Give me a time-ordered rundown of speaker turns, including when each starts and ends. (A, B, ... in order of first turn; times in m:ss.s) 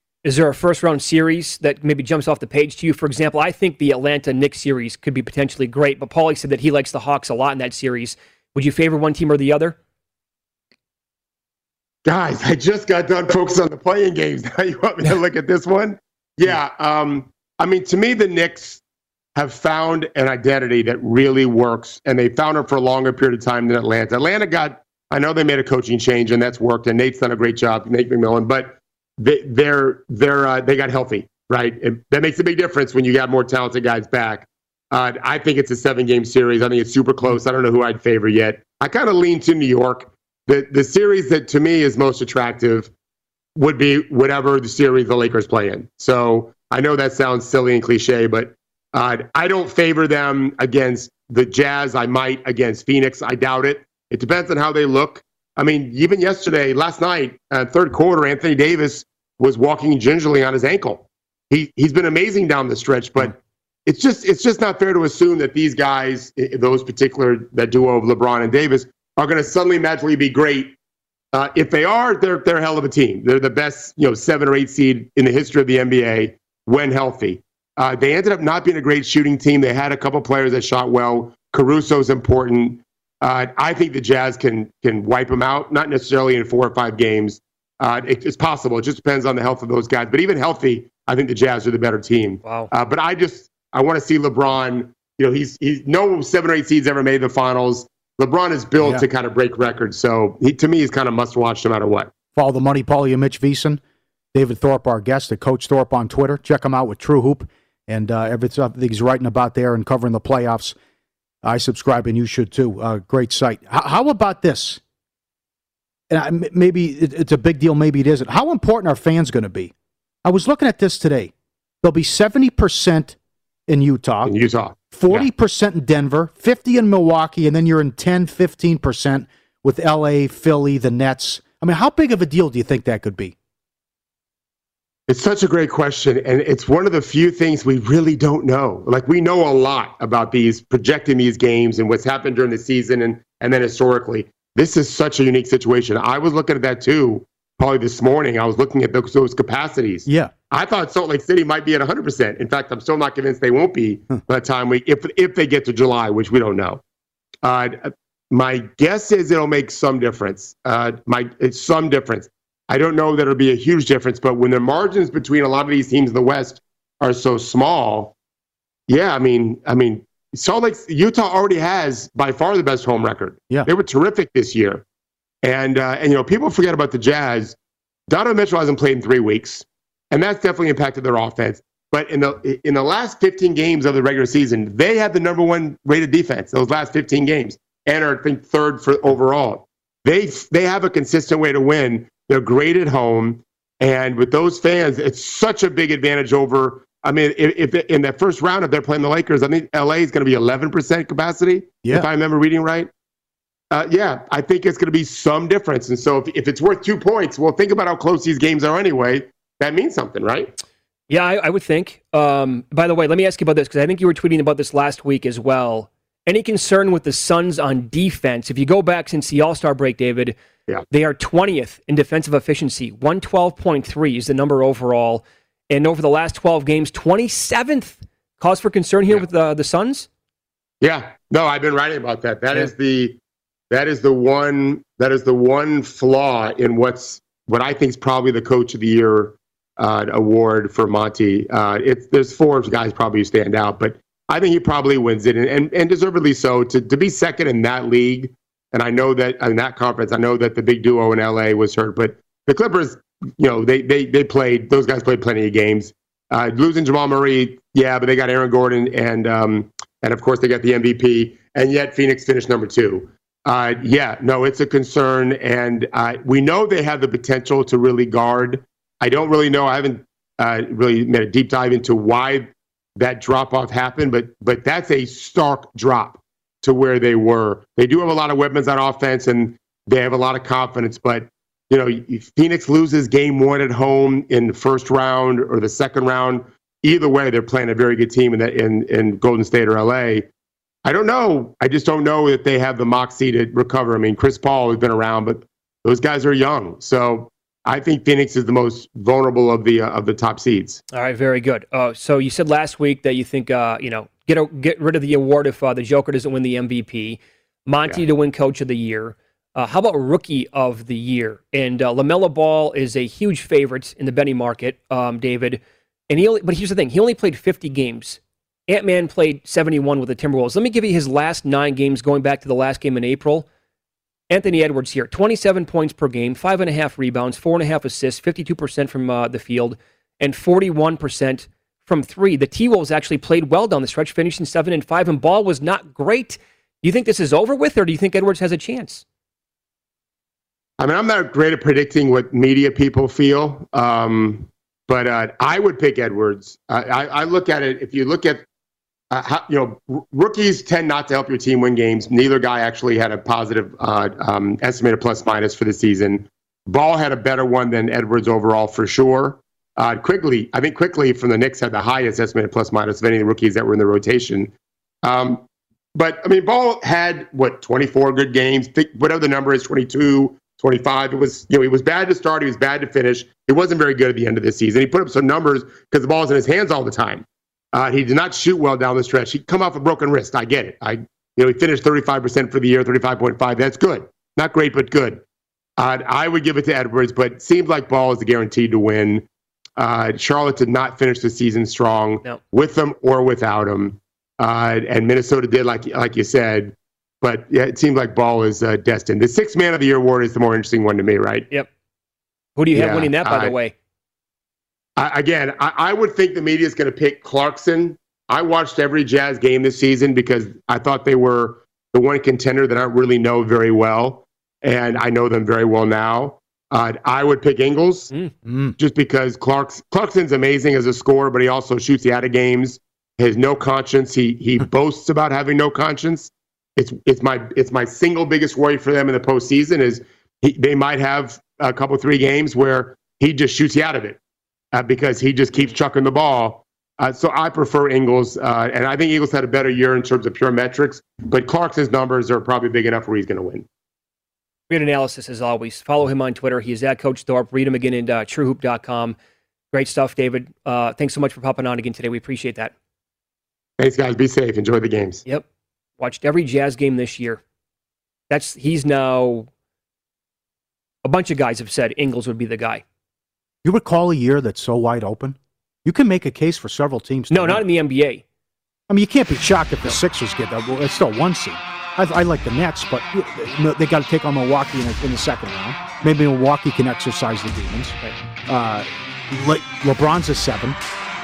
0:00.2-0:09.8 A
0:12.0-0:18.8 B
0:19.3-0:42.9 B
0:43.6-1:10.8 B
1:11.3-1:42.1 B
1:32.4-1:32.7 A
1:42.3-1:43.8 C
1:44.3-1:50.8 C
1:51.4-1:54.8 C
1:56.1-1:59.7 C
2:00.2-2:01.3 C
2:01.8-2:03.2 C
2:03.7-2:04.3 C
2:04.2-2:05.3 B
2:04.9-2:13.3 C
2:15.1-2:36.8 B
2:30.1-2:30.3 C
2:37.4-2:48.1 B
2:48.9-2:54.8 B
2:55.4-2:57.6 B
2:58.1-3:22.9 B
3:23.7-3:30.5 B
3:31.1-3:40.4 A
3:40.9-3:50.1 A
3:50.8-3:53.2 B
3:53.7-4:50.3 B
4:50.8-5:00.8 B
5:00.9-5:23.5 A
5:24.3-5:39.0 A
5:40.8-5:48.4 B
5:49.1-6:04.5 B
6:05.0-6:05.4 B
6:05.9-6:25.2 B
6:25.8-6:29.2 B
6:29.8-6:41.5 B
6:42.6-6:43.7 A
6:42.7-6:43.6 B
6:45.0-6:58.1 B
6:58.4-6:58.8 C
6:58.8-7:14.2 B
7:14.7-7:23.6 B
7:24.7-7:29.2 A
7:29.7-7:32.7 A
7:33.8-7:35.2 B
7:36.0-7:37.4 A
7:38.3-7:39.5 A
7:41.0-7:42.8 A
7:43.6-7:47.6 C
7:47.3-7:48.2 A
7:48.9-8:00.8 C